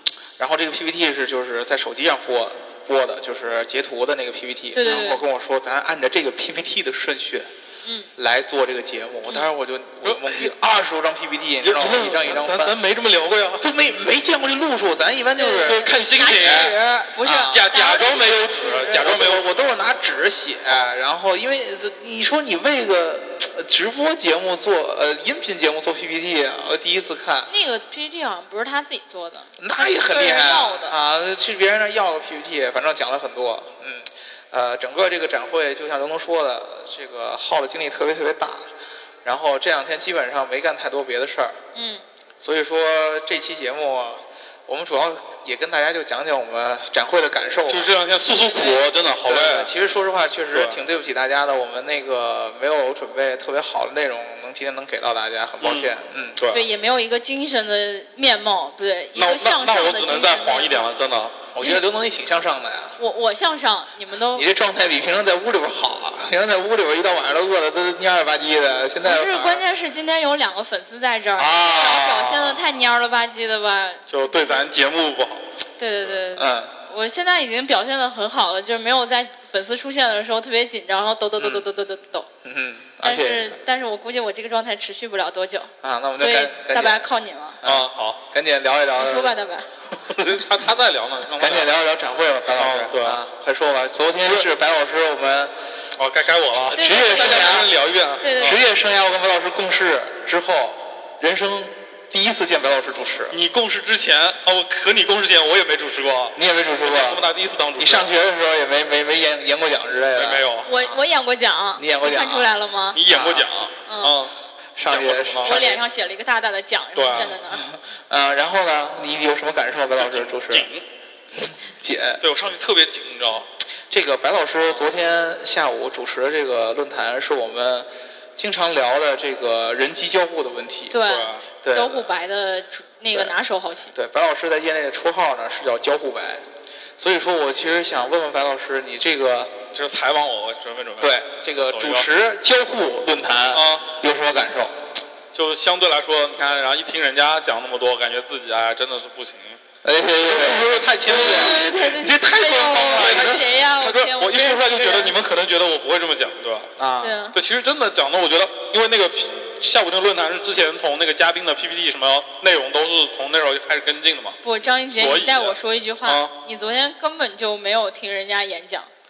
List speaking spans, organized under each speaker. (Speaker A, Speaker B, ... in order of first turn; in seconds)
Speaker A: 0.4-7.5, 8.2-12.8, 13.6-16.7, 17.2-17.6, 18.6-27.5, 29.6-38.7, 39.2-41.6, 42.4-47.9, 49.2-56.4, 61.5-63.0, 64.3-69.6, 71.3-72.6, 76.3-76.7, 81.4-81.6, 82.4-83.5, 85.8-87.0, 87.6-89.3, 91.4-95.5, 96.7-97.7, 98.4-103.4, 106.3-110.4, 111.8-112.5, 113.0-113.5, 114.8-115.8, 117.4-120.7, 121.4-122.2, 123.9-131.0, 131.6-132.1, 133.9-136.4, 137.0-139.6, 141.0-144.8, 149.8-153.4, 156.8-157.2
Speaker B: 4.7-5.2, 15.4-18.8, 27.5-30.9, 41.7-42.0, 48.3-48.8, 56.5-60.8, 63.0-64.5, 69.0-74.6, 75.8-82.3, 83.0-87.6, 89.0-89.7, 96.7-97.7, 98.2-98.6, 110.7-113.0, 113.9-114.2, 115.4-117.6, 130.9-133.9, 151.1-155.1, 157.0-157.3, 164.4-168.9
Speaker C: 10.0-10.5, 11.6-13.7, 15.6-16.8, 17.4-19.5, 47.7-49.7, 50.5-50.8, 55.6-56.6, 59.1-61.4, 74.1-75.5, 87.6-88.2, 90.0-91.7, 92.6-93.2, 96.0-98.6, 103.3-108.1, 110.1-110.7, 112.9-114.3, 114.8-115.6, 117.0-117.3, 120.0-120.8, 122.2-123.5, 131.0-131.4, 139.7-142.1, 143.5-143.9, 145.3-149.6, 150.2-151.6, 152.6-156.7, 157.3-166.3